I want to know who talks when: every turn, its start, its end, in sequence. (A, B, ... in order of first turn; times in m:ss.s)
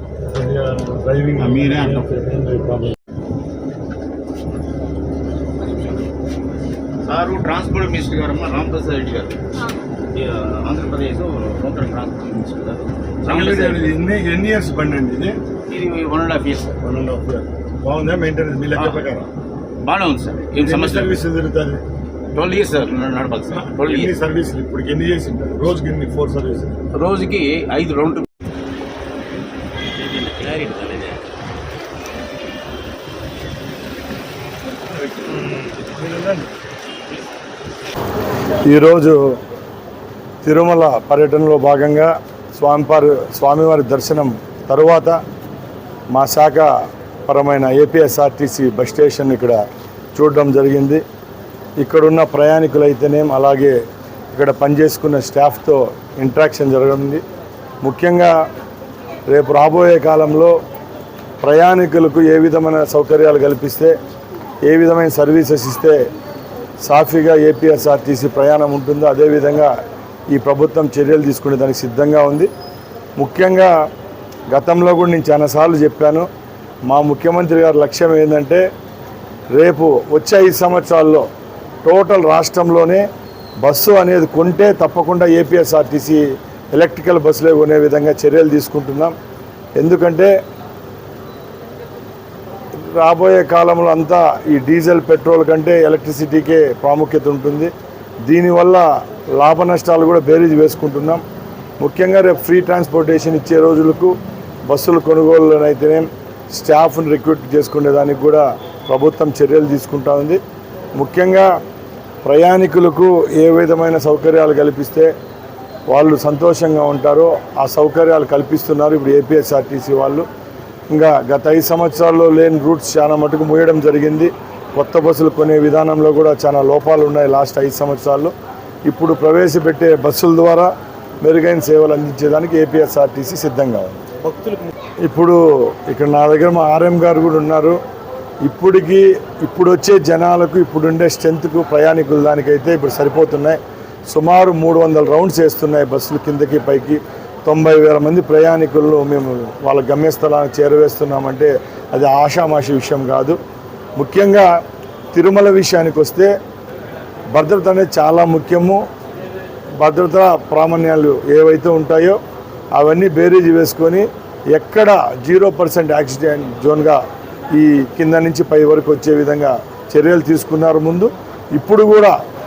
0:00.3-0:03.0 A
0:01.4-0:02.1 B
0:07.0-0:09.4 B
0:10.1-0:13.9 B
0:13.2-0:15.4 A
0:15.7-0:16.8 B
0:16.8-0:19.3 A
0:18.8-0:19.1 B
0:19.8-0:21.2 B
0:20.5-0:21.8 A
0:22.3-0:24.1 B
0:23.5-0:26.8 A
0:26.9-0:28.3 B
0:29.9-0:31.2 B
0:35.3-0:36.5 A
0:35.4-0:35.7 B
0:38.6-0:39.2 A
0:40.4-0:45.2 A
0:46.1-0:46.7 A
0:47.3-0:49.6 A
0:50.2-0:51.0 A
0:51.8-0:53.8 A
0:54.3-0:57.2 A
0:57.8-0:58.3 A
0:59.3-1:00.6 A
1:01.4-1:03.9 A
1:04.7-1:06.0 A
1:06.8-1:09.7 A
1:10.3-1:12.5 A
1:13.2-1:13.7 A
1:14.5-1:16.3 A
1:16.9-1:18.6 A
1:19.5-1:21.3 A
1:21.8-1:23.0 A
1:23.6-1:29.1 A
1:29.8-1:30.3 A
1:32.8-1:37.7 A
1:38.2-1:41.2 A
1:41.8-1:44.2 A
1:44.7-1:50.4 A
1:51.0-1:51.5 A
1:52.2-1:55.1 A
1:55.9-2:00.3 A
2:00.9-2:08.3 A
2:08.9-2:10.7 A
2:11.2-2:14.1 A
2:15.0-2:17.8 A
2:18.4-2:33.4 A
2:34.0-2:34.5 A
2:35.1-2:36.3 A
2:37.3-2:38.8 A
2:39.8-2:42.2 A
2:42.8-2:47.0 A
2:47.5-2:52.2 A